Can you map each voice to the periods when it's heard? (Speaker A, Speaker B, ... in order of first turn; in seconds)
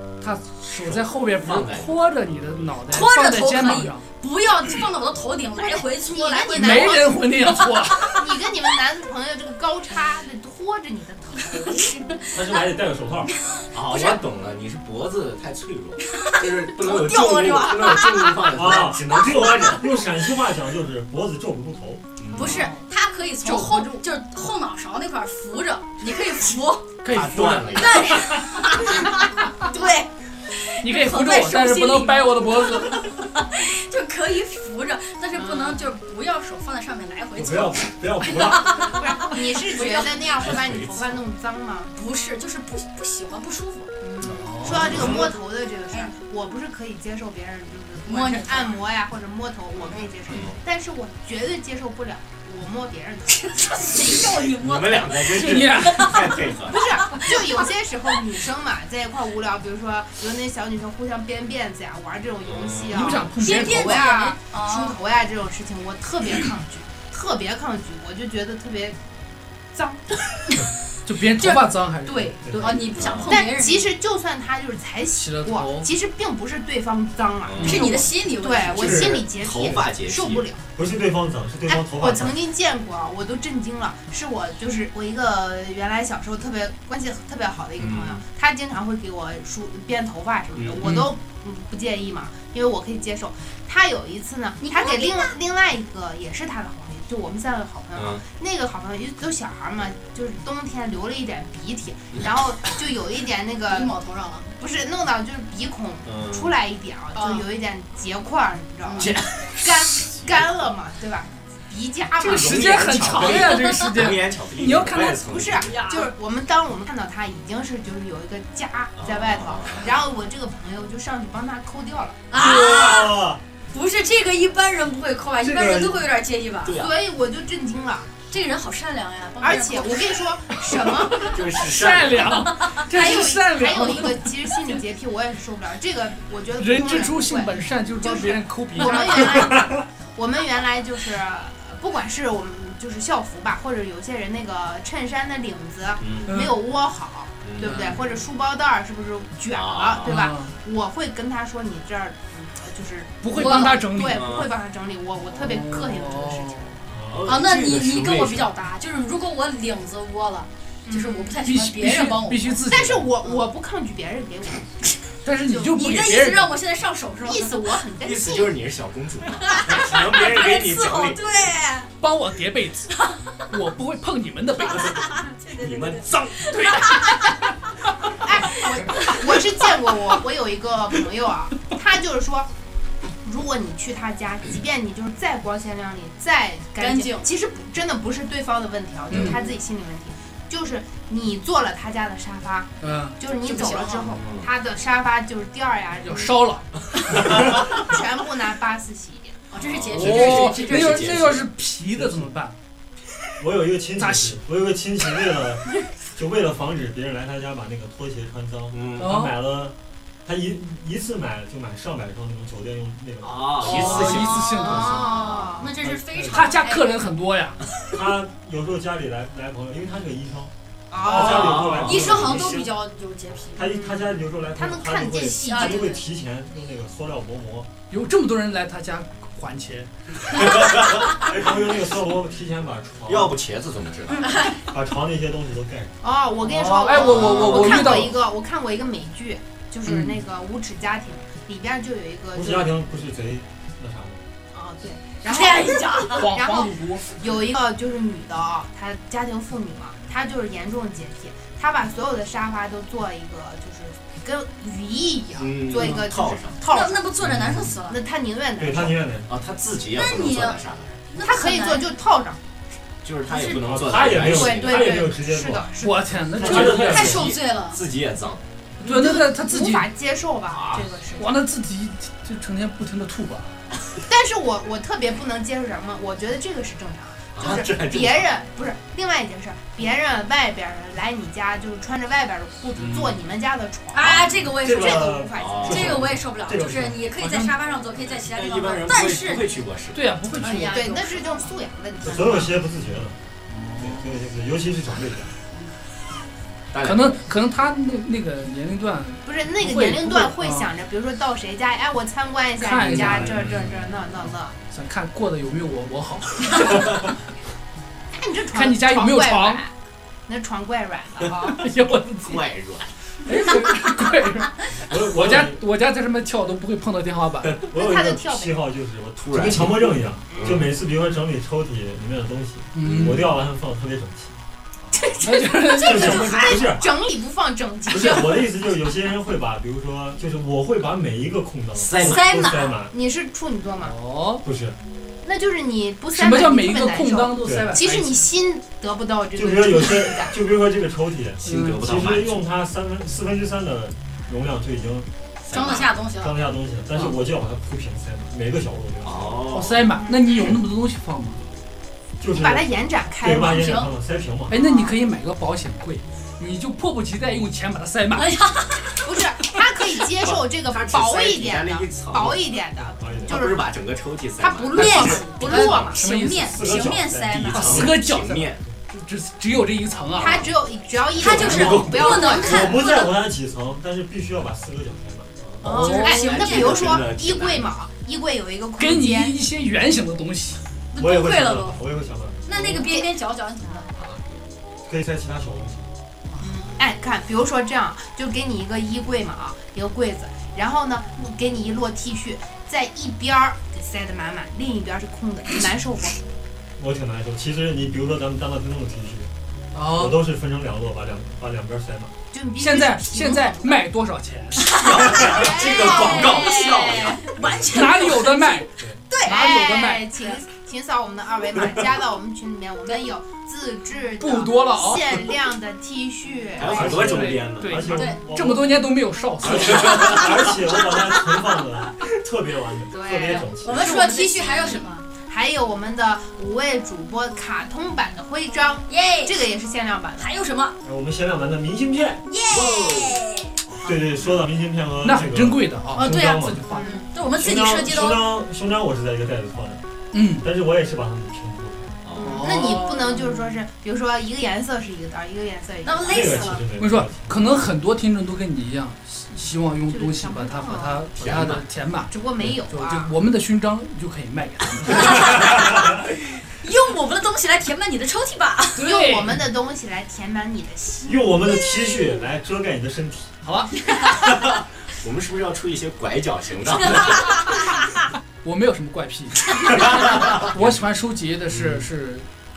Speaker A: 0.2-4.0, 6.5-8.2, 27.0-29.5, 30.8-33.0, 44.2-45.0, 55.3-56.4, 62.9-64.2, 71.0-72.8, 75.1-75.9, 77.6-77.9, 90.8-91.1, 112.2-115.2, 131.3-134.3, 136.6-139.5, 146.3-146.6, 147.6-148.1, 150.0-150.5, 153.2-154.3, 155.3-156.7, 161.4-163.1, 165.2-166.6, 172.0-172.9, 173.5-175.2, 176.1-177.5, 189.1-189.4, 192.8-193.2, 196.0-197.2, 199.9-202.5, 204.0-204.4, 209.0-209.4, 213.6-215.1, 216.3-217.6, 227.9-230.7, 236.4-238.2, 239.8-240.2, 246.1-247.1, 265.8-267.0, 268.8-269.9, 271.2-273.5, 287.1-287.5, 289.9-290.9, 293.5-294.0, 296.8-300.7, 302.6-303.4, 304.7-307.1, 308.5-309.6, 311.4-312.4, 313.2-317.6, 322.7-323.3, 325.2-326.5, 333.8-334.4, 336.1-338.2, 341.4-341.8, 349.5-351.4, 354.5-358.3, 365.1-366.6, 367.5-370.5, 375.6-376.3, 378.8-380.6, 399.7-400.2, 402.6-404.8, 407.6-408.7, 409.2-410.1, 414.2-415.2, 417.0-420.3, 435.0-436.1, 440.1-440.5, 442.2-443.6, 446.8-455.5, 458.8-459.4, 463.4-463.8, 468.4-472.3
Speaker B: 0.7-2.7, 13.7-19.8, 22.2-22.6, 27.1-28.1, 40.4-41.2, 44.7-45.3, 49.8-50.6, 54.6-57.1, 62.4-63.2, 73.0-73.3, 77.4-77.9, 78.7-80.4, 87.8-88.2, 90.5-90.8, 97.9-98.2, 106.0-106.5, 109.0-110.7, 112.2-115.7, 119.0-119.9, 126.6-126.9, 131.2-132.5, 146.0-146.3, 147.4-147.9, 149.5-150.2, 154.0-154.5, 156.9-158.5, 168.0-171.2, 175.5-176.0, 194.1-194.5, 199.6-201.4, 208.7-209.1, 213.2-215.4, 221.1-222.6, 230.5-231.1, 233.1-234.3, 236.9-238.2, 255.4-256.6, 259.3-261.0, 263.0-264.9, 266.4-268.4, 270.5-270.8, 277.4-278.3, 285.4-286.0, 288.2-290.0, 296.7-297.2, 303.3-303.7, 312.2-312.9, 319.2-320.7, 322.8-323.1, 331.8-332.2, 341.4-342.4, 345.5-345.9, 349.0-349.9, 360.7-362.4, 363.3-365.9, 367.3-368.6, 370.1-370.5, 371.1-372.4, 375.4-377.7, 383.9-384.2, 404.7-407.6, 416.6-417.8, 432.5-433.1, 442.0-442.4, 451.2-451.6, 464.3-467.4, 469.9-470.7, 471.5-471.8
Speaker C: 2.9-7.1, 13.3-14.2, 16.0-19.1, 22.3-26.9, 27.7-40.3, 41.9-44.4, 48.0-48.8, 53.3-57.6, 63.4-65.0, 71.4-73.9, 77.6-79.2, 94.6-95.3, 103.7-104.5, 107.1-107.5, 108.8-109.2, 113.1-114.0, 115.6-116.1, 122.3-123.2, 123.7-126.8, 128.3-130.1, 132.4-132.9, 153.3-153.8, 157.2-162.6, 165.5-167.6, 169.4-171.9, 172.9-173.3, 174.6-177.3, 178.5-179.2, 186.8-187.3, 193.4-194.2, 199.5-201.2, 214.0-217.1, 221.3-223.7, 225.4-226.0, 234.2-234.6, 245.2-246.3, 256.6-258.0, 259.9-261.9, 263.3-264.6, 266.5-267.8, 270.7-271.3, 283.9-289.5, 290.3-291.5, 324.9-326.6, 332.0-332.8, 345.5-346.4, 353.4-353.9, 358.1-359.0, 364.4-367.9, 371.2-373.1, 375.7-377.0, 380.9-381.8, 382.4-383.9, 404.6-409.6, 417.9-418.2, 419.9-420.2, 423.6-425.1, 428.9-429.4, 430.2-430.8, 432.2-433.6, 435.9-438.3, 445.8-446.6, 454.8-458.9, 466.9-467.7
Speaker D: 5.6-7.4, 8.0-12.2, 22.4-22.8, 23.4-24.1, 35.3-35.8, 38.8-41.9, 44.0-53.9, 56.7-69.0, 69.7-70.6, 72.4-80.6, 81.7-104.0, 104.6-113.0, 115.2-122.2, 126.7-128.1, 129.4-131.7, 132.9-156.8, 160.8-161.4, 162.7-164.7, 167.2-168.6, 178.2-182.5, 183.2-196.4, 197.1-199.4, 214.7-215.7, 220.9-221.8, 223.6-226.0, 236.0-242.8, 244.5-257.1, 257.9-259.0, 261.2-262.4, 264.3-266.6, 268.8-270.9, 274.1-286.0, 290.5-292.5, 299.2-304.6, 308.1-309.7, 310.3-311.7, 317.7-318.6, 326.0-328.5, 332.9-333.9, 335.2-340.4, 350.0-350.5, 352.3-353.7, 354.5-354.9, 359.0-363.7, 364.6-366.0, 370.1-373.1, 375.6-379.3, 382.8-383.1, 386.4-396.2, 402.3-403.9, 405.1-407.2, 409.2-417.1, 422.9-430.3, 436.7-437.1, 442.2-446.6, 449.9-451.1, 452.1-453.1, 458.8-461.3
Speaker E: 12.3-13.3, 18.5-22.0, 37.4-38.8, 72.4-72.7, 80.8-82.4, 122.3-123.4, 125.4-126.0, 201.9-202.3, 203.4-214.2, 215.8-216.5, 217.9-222.7, 223.6-227.7, 231.1-233.4, 234.5-236.0, 242.3-244.2, 257.2-257.8, 258.6-259.3, 263.6-265.7, 266.4-267.3, 284.0-287.0, 292.0-293.2, 293.8-295.3, 302.8-303.7, 314.9-315.6, 317.4-324.4, 325.8-326.9, 327.9-332.9, 334.4-334.8, 337.4-337.8, 339.4-345.1, 346.2-349.4, 352.2-354.6, 362.9-363.4, 366.4-368.0, 371.2-375.3, 380.9-382.8, 384.9-385.9, 396.8-399.3, 399.9-402.1, 416.6-418.9, 419.4-424.0, 430.8-432.2, 433.8-436.7, 437.4-439.8, 440.4-441.9, 446.0-447.3, 461.0-463.4